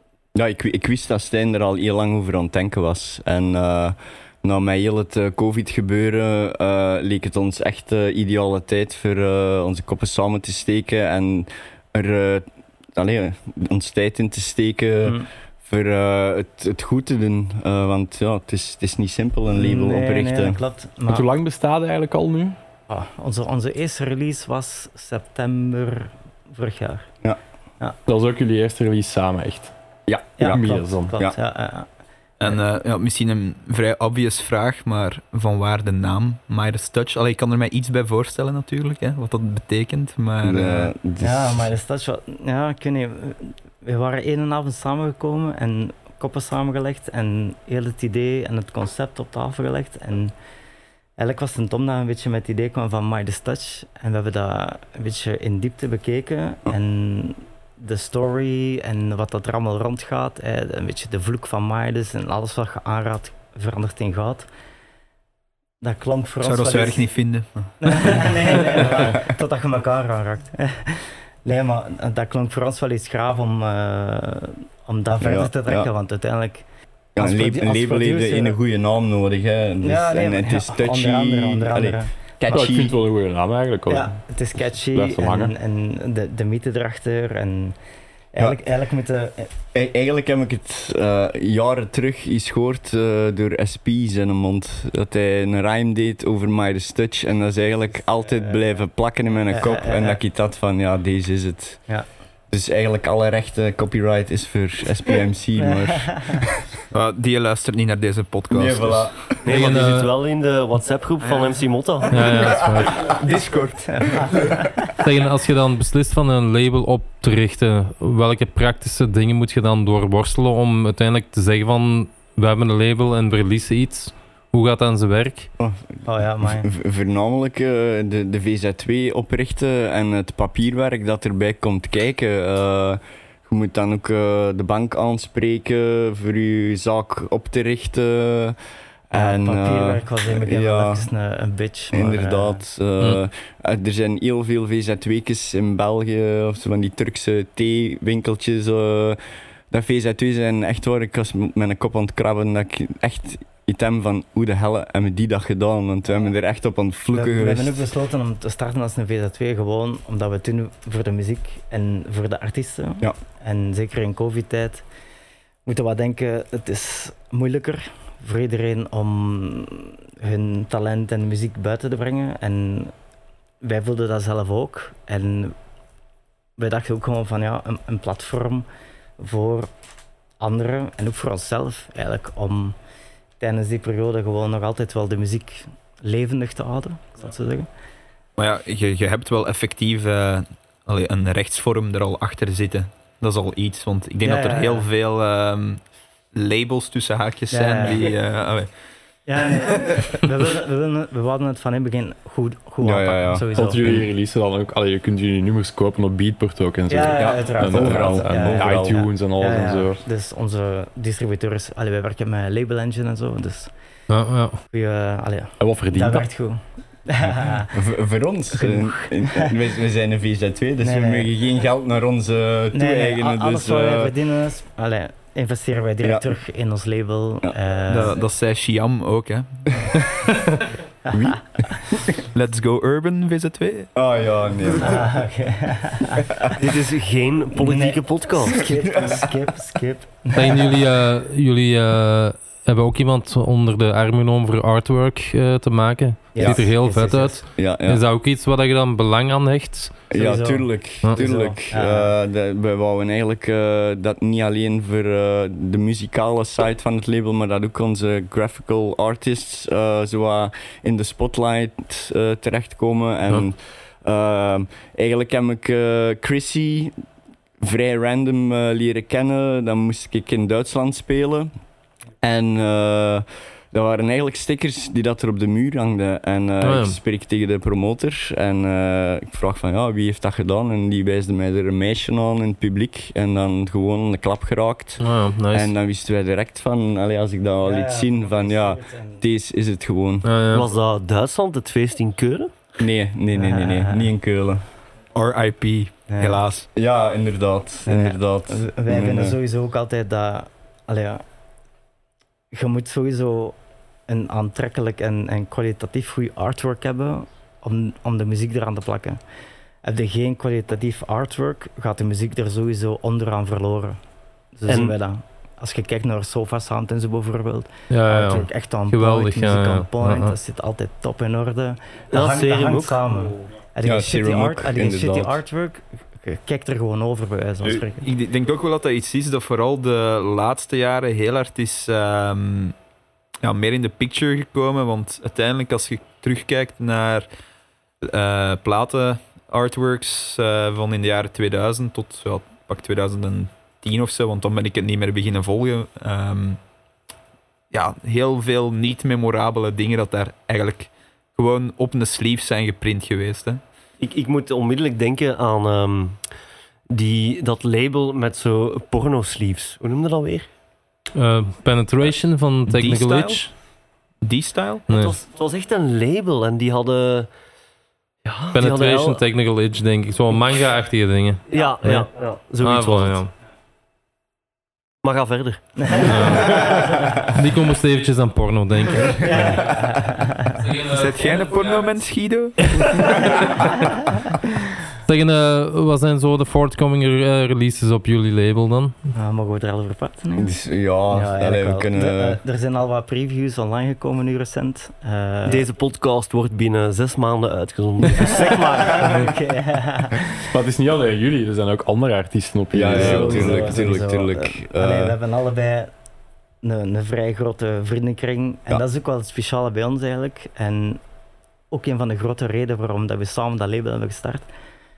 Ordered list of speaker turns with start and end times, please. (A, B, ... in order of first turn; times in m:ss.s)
0:00.3-0:20.6 A
0:19.5-0:21.2 B
0:21.1-0:22.6 C
0:22.9-0:27.1 B
0:28.1-0:29.7 C
0:30.1-0:31.4 A
0:30.4-0:31.9 B
0:30.4-0:31.1 C
0:32.4-0:40.9 D
0:40.4-0:41.6 A
0:41.2-0:50.3 B
0:51.2-1:04.5 B
1:05.8-1:07.1 B
1:06.4-1:07.5 D
1:07.8-1:16.6 B
1:15.2-1:15.9 A
1:17.1-1:23.0 A
1:17.2-1:18.6 B
1:19.8-1:22.1 B
1:22.5-1:24.2 C
1:23.9-1:27.8 B
1:24.8-1:25.5 C
1:28.3-1:29.5 B
1:29.7-1:41.8 A
1:39.5-1:40.2 B
1:42.5-1:46.6 A
1:45.6-1:46.4 B
1:46.9-1:49.1 D
1:48.5-1:49.4 A
1:49.4-1:52.3 E
1:49.5-1:50.1 F
1:52.1-1:53.1 F
1:53.0-1:54.3 D
1:53.9-1:54.9 B
1:55.0-2:05.5 F
2:05.6-2:18.6 A
2:06.0-2:06.7 B
2:19.1-2:21.1 A
2:19.1-2:22.6 B
2:21.9-2:29.2 A
2:29.7-2:37.8 A
2:37.1-2:44.8 B
2:45.6-2:52.9 B
2:53.6-2:55.6 B
2:56.6-2:58.6 B
2:59.2-2:59.7 B
3:00.4-3:02.8 B
3:03.4-3:07.7 B
3:08.4-3:15.8 D
3:14.2-3:14.9 B
3:16.3-3:18.7 D
3:17.5-3:18.1 B
3:19.3-3:23.8 B
3:19.6-3:20.1 D
3:22.8-3:24.1 A
3:23.5-3:30.0 C
3:26.9-3:33.7 B
3:27.1-3:29.1 A
3:34.1-3:34.6 F
3:34.7-3:37.8 B
3:35.6-3:36.3 C
3:37.7-3:44.1 A
3:38.5-3:39.5 B
3:40.8-3:41.3 B
3:42.7-3:48.2 B
3:47.9-3:50.1 D
3:51.1-3:52.2 A
3:52.3-3:53.9 D
3:53.9-3:55.1 A
3:54.8-3:56.4 B
3:56.5-3:58.6 E
3:57.6-4:00.7 B
4:00.3-4:10.0 F
4:06.3-4:07.4 B
4:06.4-4:06.6 A
4:07.6-4:08.0 A
4:10.1-4:26.9 A
4:10.1-4:12.1 B
4:27.6-4:31.5 A
4:32.2-4:50.3 A
4:36.6-4:37.0 F
4:45.0-4:45.7 F
4:47.6-4:49.2 B
4:50.2-4:50.7 F
4:50.5-4:52.5 E
4:52.8-4:54.6 A
4:53.3-4:54.1 B
4:55.1-4:56.7 D
4:56.1-4:56.4 B
4:56.7-4:59.4 A
4:57.8-5:01.2 B
5:02.5-5:03.6 B
5:04.1-5:09.2 B
5:09.8-5:14.0 B
5:14.5-5:28.1 B
5:14.7-5:14.9 E
5:17.9-5:20.3 F
5:22.1-5:23.0 E
5:23.8-5:25.4 A
5:27.7-5:32.7 D
5:33.4-5:37.3 D
5:38.0-5:46.6 D
5:47.7-5:53.6 D
5:54.0-5:56.2 E
5:56.9-6:00.5 E
6:01.1-6:03.5 F
6:02.7-6:03.4 D
6:04.2-6:04.8 D
6:04.9-6:05.2 F
6:04.9-6:07.3 E
6:08.2-6:09.2 E
6:08.5-6:12.1 F
6:11.5-6:13.2 E
6:12.6-6:13.3 F
6:15.0-6:16.6 E
6:15.8-6:17.1 B
6:16.0-6:19.8 F
6:19.1-6:20.7 B
6:20.5-6:21.8 F
6:20.9-6:23.4 D
6:22.8-6:23.8 F
6:23.6-6:24.2 B
6:25.0-6:28.9 F
6:29.1-6:30.6 B
6:30.3-6:32.4 A
6:31.1-6:35.6 B
6:35.4-6:39.3 E
6:38.7-6:40.3 B
6:40.5-6:43.9 C
6:42.7-6:45.2 A
6:42.9-6:45.9 B
6:46.6-6:51.0 B
6:51.7-6:54.4 B